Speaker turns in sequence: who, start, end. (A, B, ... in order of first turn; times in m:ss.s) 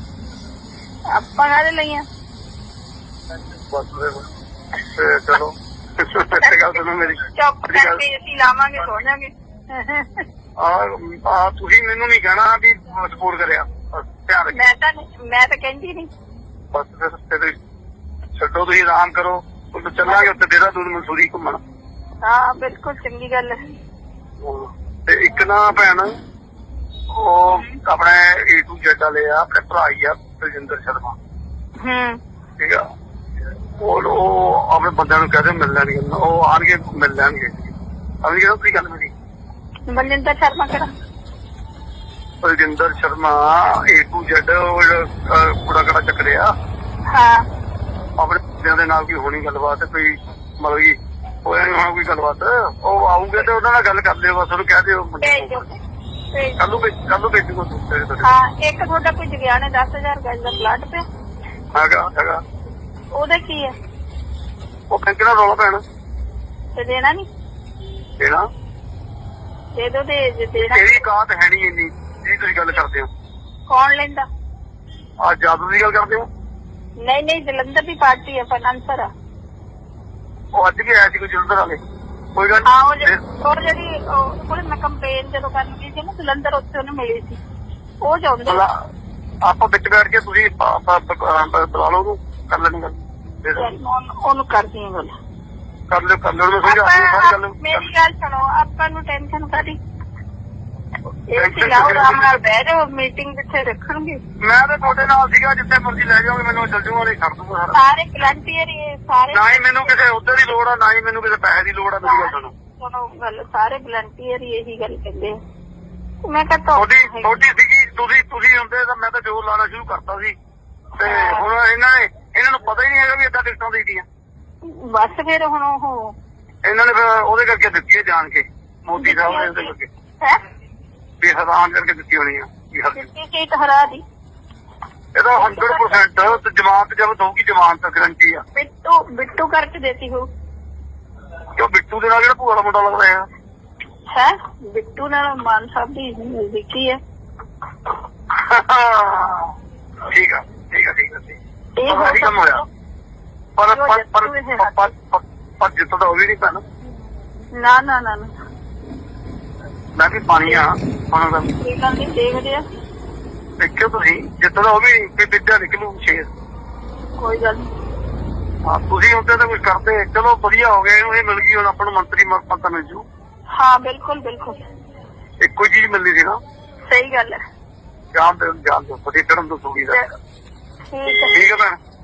0:01.1-0:02.0 A
0:03.7-0:04.2 B
0:04.8-0:08.0 B
0:06.4-0:10.2 A
0:10.6-0:14.7 B
0:14.5-0:16.1 A
0:16.7-0:17.6 B
0:18.4-0:21.6 B
0:20.1-0:20.4 A
0:22.2-0:23.6 A
0:24.4-0:26.1 B
0:27.1-0:31.2 B
0:27.5-0:27.8 A
0:31.8-0:32.2 A
0:32.6-0:32.8 B
0:33.8-0:39.1 B
0:39.9-0:40.9 A
0:42.4-0:46.5 B
0:47.1-0:47.4 A
0:48.2-0:55.6 B
0:55.2-0:55.8 A
0:56.3-0:56.7 A
0:56.6-0:58.3 B
0:58.2-1:01.0 A
1:01.8-1:02.4 B
1:03.1-1:03.7 A
1:04.9-1:05.8 B
1:06.8-1:07.3 A
1:09.8-1:11.0 A
1:10.6-1:13.1 B
1:13.7-1:14.3 A
1:15.2-1:16.3 B
1:17.0-1:19.1 A
1:20.6-1:21.8 B
1:22.4-1:23.2 B
1:22.7-1:27.4 A
1:28.0-1:28.6 A
1:28.5-1:28.8 B
1:29.4-1:33.8 B
1:33.6-1:35.1 A
1:35.9-1:37.9 B
1:36.6-1:39.8 A
1:41.3-1:44.2 A
1:41.4-1:42.4 B
1:44.4-1:47.8 B
1:47.7-1:50.0 A
1:49.3-1:52.5 B
1:52.0-1:55.4 A
1:56.2-1:57.4 A
1:56.8-2:00.4 B
2:01.0-2:04.1 B
2:01.0-2:01.5 A
2:04.6-2:06.2 A
2:06.6-2:09.9 B
2:09.0-2:10.4 A
2:11.2-2:13.1 B
2:13.0-2:14.0 A
2:15.2-2:18.4 B
2:15.3-2:16.1 A
2:18.6-2:20.3 A
2:21.6-2:23.3 B
2:24.1-2:27.0 A
2:28.3-2:29.5 B
2:30.1-2:32.6 B
2:31.8-2:32.5 A
2:33.6-2:36.6 B
2:33.7-2:34.8 A
2:37.6-2:38.3 A
2:40.0-2:41.5 B
2:41.6-2:42.6 A
2:43.6-2:46.3 B
2:47.2-2:47.7 A
2:48.7-2:53.0 B
2:53.5-2:54.6 A
2:55.4-2:56.4 B
2:56.9-2:57.4 A
2:58.1-3:00.0 B
3:00.9-3:01.4 A
3:01.3-3:01.8 B